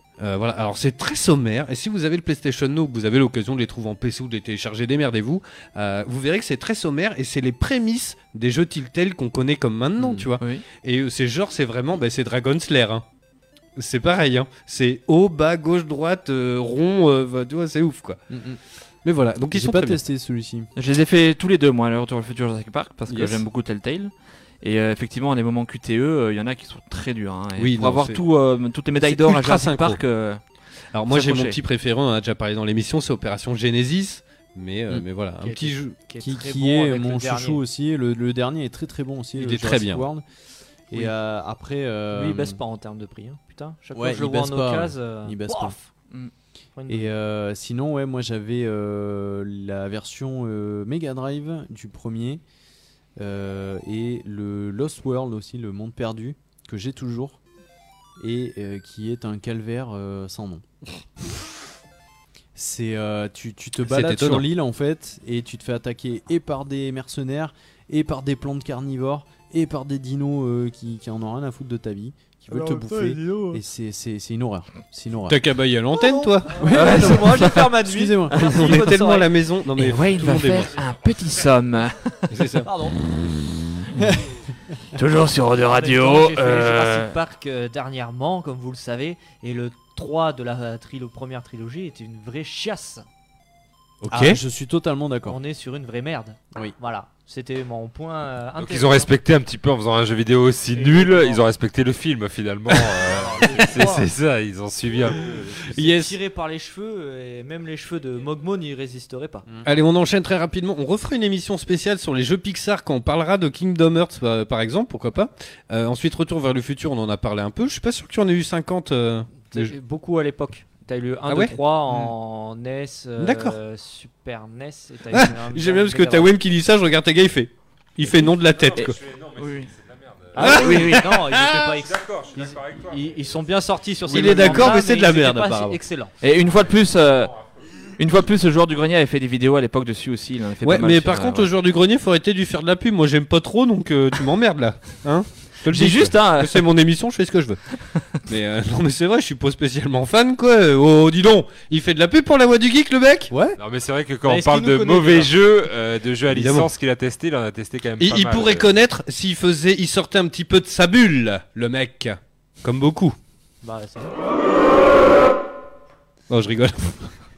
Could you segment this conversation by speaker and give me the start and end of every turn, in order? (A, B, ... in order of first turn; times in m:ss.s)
0:00.2-0:13.0 A
0:10.0-0:10.3 B
0:10.4-0:10.7 C
0:13.8-0:18.2 A
0:18.3-0:18.6 B
0:19.0-0:20.0 A
0:19.5-0:20.7 B
0:20.8-0:30.4 C
0:23.1-0:23.4 A
0:27.6-0:28.2 A
0:29.0-0:30.0 A
0:30.9-0:36.0 A
0:31.1-0:31.6 C
0:35.4-0:37.6 D
0:36.2-0:40.2 B
0:39.4-0:40.1 A
0:40.9-0:42.6 B
0:42.1-0:45.9 D
0:44.0-0:45.8 B
0:46.8-0:47.1 D
0:46.9-0:52.4 B
0:53.2-0:57.4 B
0:58.2-1:00.7 B
1:02.6-1:15.4 B
1:03.8-1:04.5 A
1:12.5-1:13.6 D
1:15.3-1:17.1 A
1:16.5-1:19.3 D
1:16.6-1:18.4 B
1:16.7-1:17.5 C
1:18.4-1:20.8 A
1:19.8-1:22.4 C
1:22.3-1:22.7 A
1:22.6-1:23.0 D
1:24.0-1:24.2 B
1:24.9-1:27.2 C
1:25.6-1:33.0 D
1:34.0-1:34.4 A
1:34.1-1:35.4 B
1:35.3-1:39.1 D
1:38.6-1:45.7 E
1:40.7-1:41.4 D
1:43.1-1:44.1 D
1:45.7-1:46.1 A
1:45.7-1:49.5 D
1:49.6-1:59.7 A
1:59.5-2:06.3 D
2:01.3-2:02.1 A
2:03.2-2:03.6 A
2:05.1-2:09.0 A
2:08.4-2:10.6 E
2:08.8-2:09.7 C
2:10.4-2:16.1 D
2:10.4-2:11.6 A
2:10.4-2:10.9 C
2:11.4-2:14.2 E
2:14.1-2:15.8 A
2:16.2-2:17.3 C
2:16.3-2:17.5 E
2:18.0-2:21.5 C
2:20.6-2:27.6 A
2:25.7-2:26.7 C
2:28.3-2:33.3 A
2:33.3-2:33.6 B
2:33.6-2:38.7 E
2:34.2-2:35.4 D
2:36.3-2:36.7 A
2:38.0-2:43.2 A
2:43.6-2:44.2 D
2:46.3-2:47.1 A